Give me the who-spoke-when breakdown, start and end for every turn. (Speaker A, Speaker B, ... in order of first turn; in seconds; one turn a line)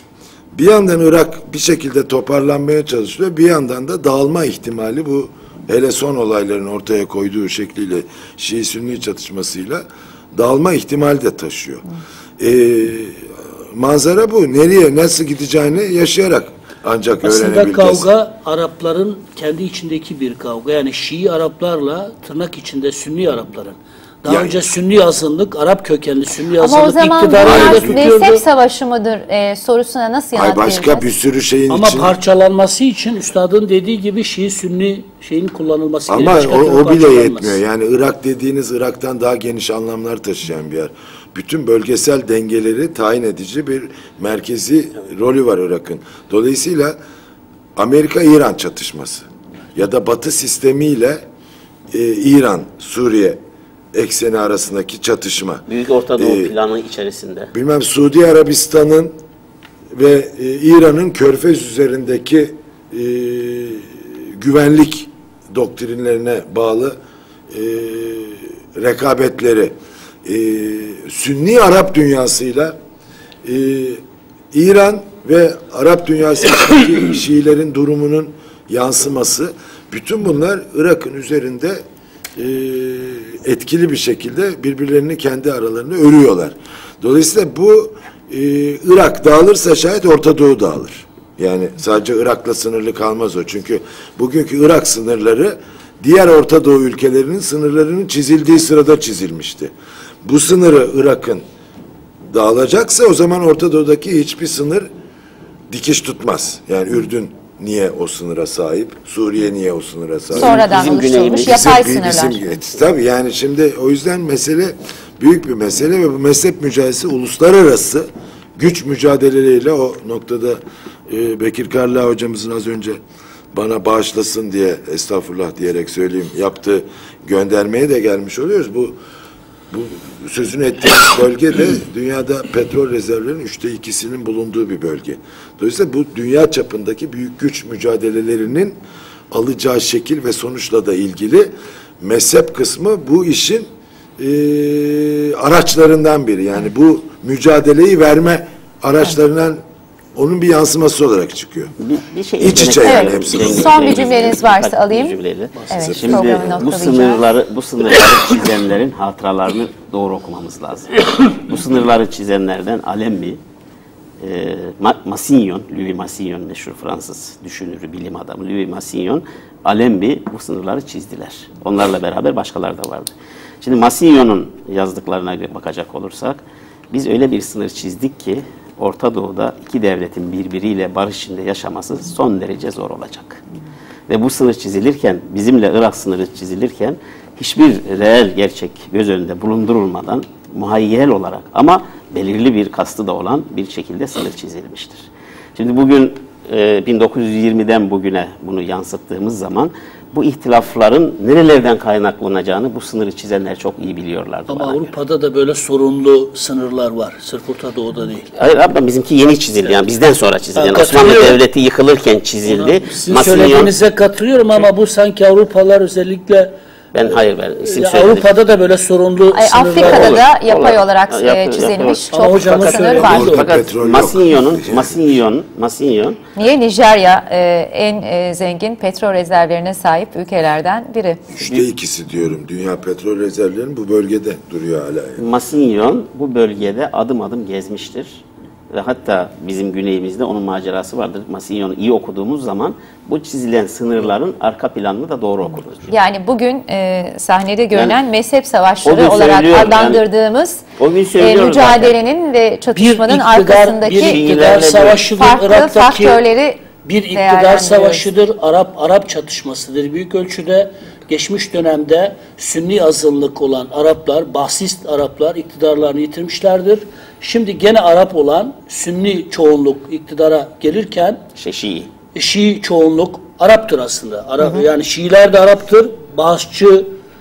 Speaker A: 0.5-11.8
Speaker A: 12.4-18.1
Speaker B: 17.2-28.4
Speaker A: 24.3-24.6
Speaker C: 26.6-31.1
Speaker A: 27.4-28.1
Speaker A: 30.3-32.1
Speaker B: 31.7-37.6
Speaker A: 36.1-47.0
Speaker A: 47.8-51.2
Speaker A: 51.9-53.4
Speaker A: 53.9-55.6
Speaker D: 55.7-57.5
Speaker A: 56.2-56.5
Speaker A: 57.5-59.1
Speaker A: 59.9-67.0
Speaker A: 67.5-72.8
Speaker A: 73.4-81.8
Speaker A: 82.4-99.7
Speaker A: 100.2-101.4
Speaker A: 102.3-104.9
Speaker A: 105.7-123.0
Speaker C: 110.3-112.4
Speaker D: 110.3-111.7
Speaker A: 123.5-129.0
Speaker A: 129.7-138.8
Speaker A: 139.3-143.7
Speaker A: 144.2-149.6
Speaker A: 150.2-151.7
Speaker D: 151.8-163.4
Speaker A: 152.4-154.2
Speaker C: 152.8-155.2
Speaker C: 155.7-157.3
Speaker A: 155.7-156.9
Speaker D: 164.2-176.4
Speaker D: 176.9-183.4
Speaker D: 184.1-204.9
Speaker B: 204.5-208.3
Speaker D: 208.4-213.8
Speaker B: 210.6-211.4
Speaker B: 212.4-216.5
Speaker D: 216.9-218.3
Speaker B: 217.6-220.1
Speaker C: 219.3-223.4
Speaker D: 219.8-226.2
Speaker B: 222.1-223.6
Speaker A: 222.9-224.9
Speaker C: 226.4-231.3
Speaker A: 231.3-235.2
Speaker D: 235.2-245.9
Speaker C: 245.9-250.6
Speaker D: 248.8-250.0
Speaker D: 250.8-251.9
Speaker C: 251.2-258.1
Speaker B: 252.8-256.2
Speaker D: 253.9-255.1
Speaker B: 256.8-271.2
Speaker D: 271.4-271.9
Speaker B: 272.1-277.0